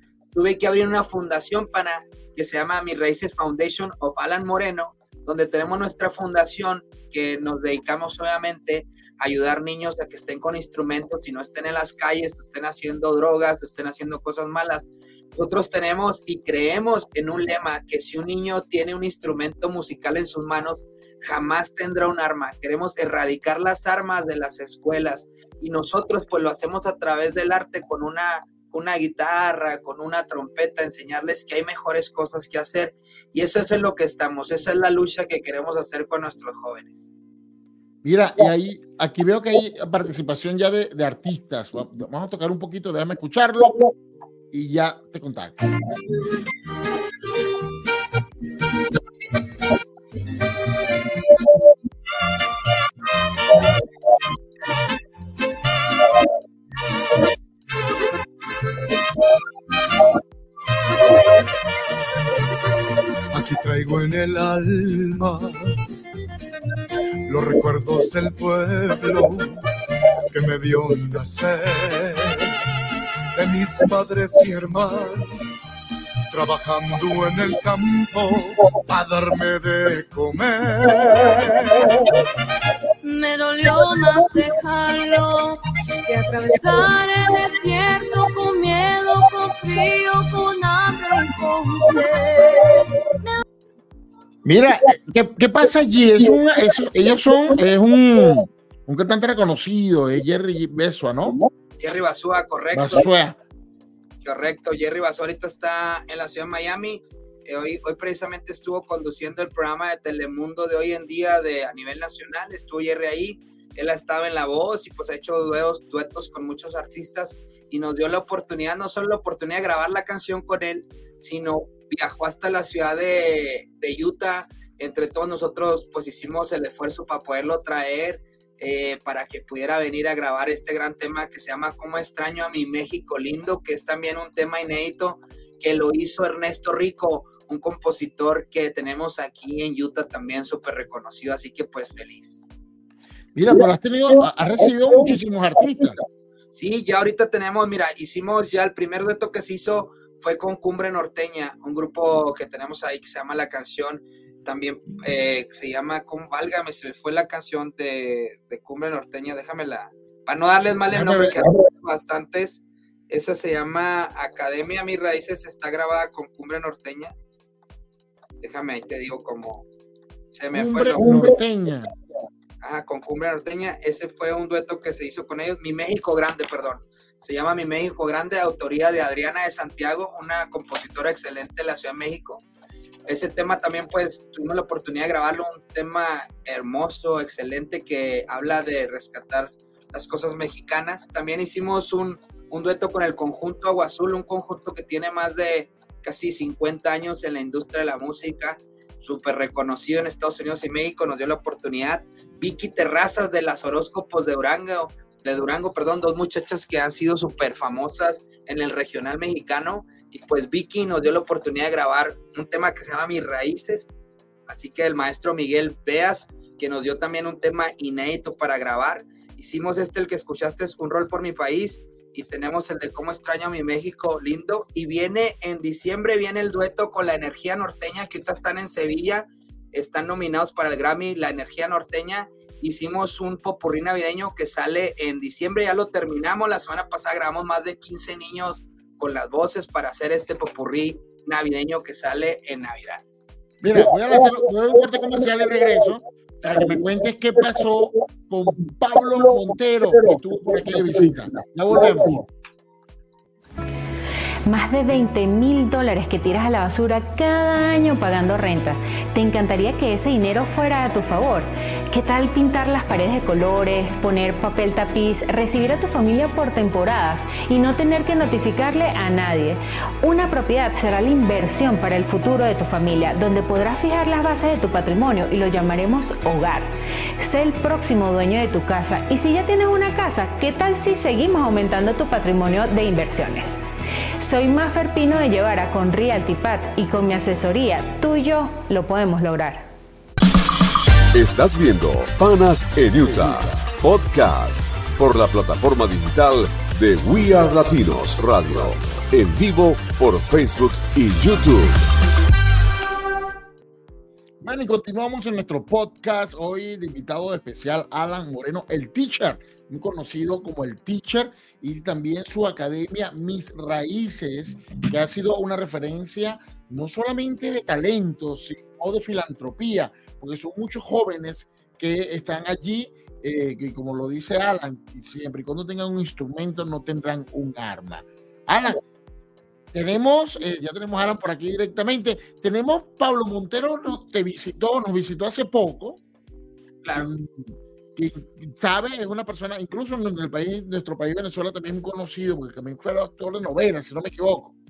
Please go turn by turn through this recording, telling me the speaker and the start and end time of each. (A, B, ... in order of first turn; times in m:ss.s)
0:00.3-0:37.1 A
0:38.0-0:43.8 B
0:44.5-0:45.6 B
1:03.3-1:05.6 C
1:07.2-1:09.6 C
1:10.3-1:12.5 C
1:13.4-1:15.5 C
1:16.3-1:22.1 C
1:23.0-1:33.3 D
1:34.4-1:41.4 B
1:41.8-1:43.1 A
1:42.7-1:43.4 B
1:44.2-2:22.4 A
2:23.3-2:26.0 B
2:26.5-2:47.1 A
2:40.9-2:41.5 B
2:48.4-2:49.6 A
2:50.3-2:51.3 A
2:50.5-2:51.9 B
2:52.6-3:02.4 A
3:03.0-3:33.9 A
3:34.5-4:03.0 A
4:03.6-4:12.2 B
4:14.4-4:43.6 E
4:44.2-4:49.7 E
4:51.1-5:01.8 F
5:04.4-5:28.8 B
5:29.7-5:36.0 B
5:36.8-5:37.1 A
5:36.9-5:44.5 B